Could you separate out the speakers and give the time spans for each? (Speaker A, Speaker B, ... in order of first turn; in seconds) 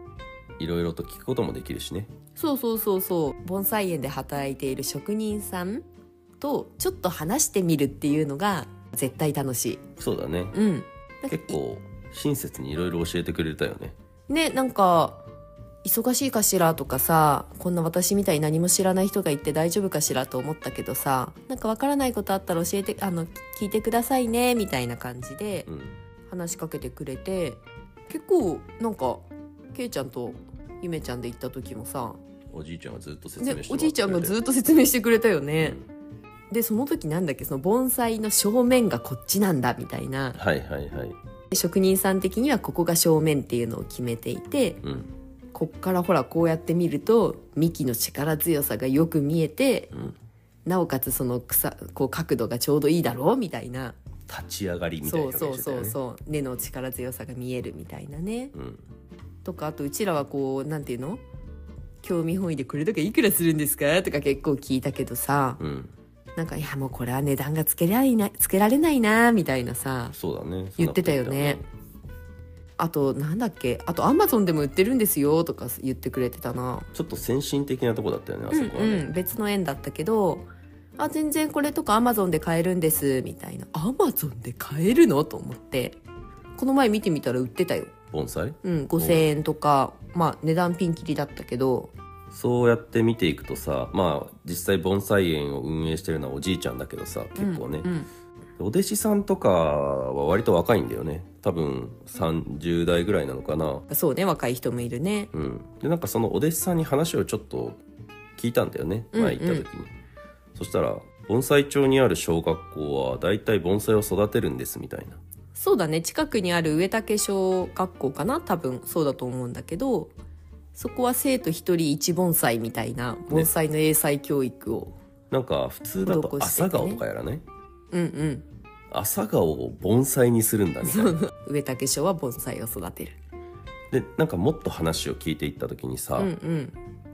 Speaker A: 0.6-2.1, 10.0-10.6, 11.3-13.9, 25.7-26.0, 32.5-34.4, 35.6-35.9, 40.3-41.2, 44.8-45.1, 49.9-50.2, 54.3-56.0, 58.5-58.8, 65.6-65.9, 70.1-71.7, 76.9-79.1, 88.1-89.2, 92.3-97.9, 98.6-103.8, 105.3-107.8, 108.4-109.9, 110.5-115.2, 125.3-127.4, 128.9-131.2, 133.9-136.3
Speaker B: 2.4-5.8, 6.4-9.8, 10.5-11.6, 14.3-15.2, 15.8-25.7, 26.3-32.2, 33.4-35.8, 36.5-40.4, 41.5-44.8, 45.5-49.9, 50.6-54.0, 55.0-58.5, 59.4-61.2, 62.0-65.6, 66.3-70.2, 70.8-71.6, 72.8-76.9, 78.5-86.0, 86.5-87.9, 88.6-91.9, 97.3-98.1, 103.9-105.3, 109.1-109.7, 115.5-120.1, 120.7-124.9, 126.0-127.0, 127.9-128.4, 130.8-133.2, 136.2-136.8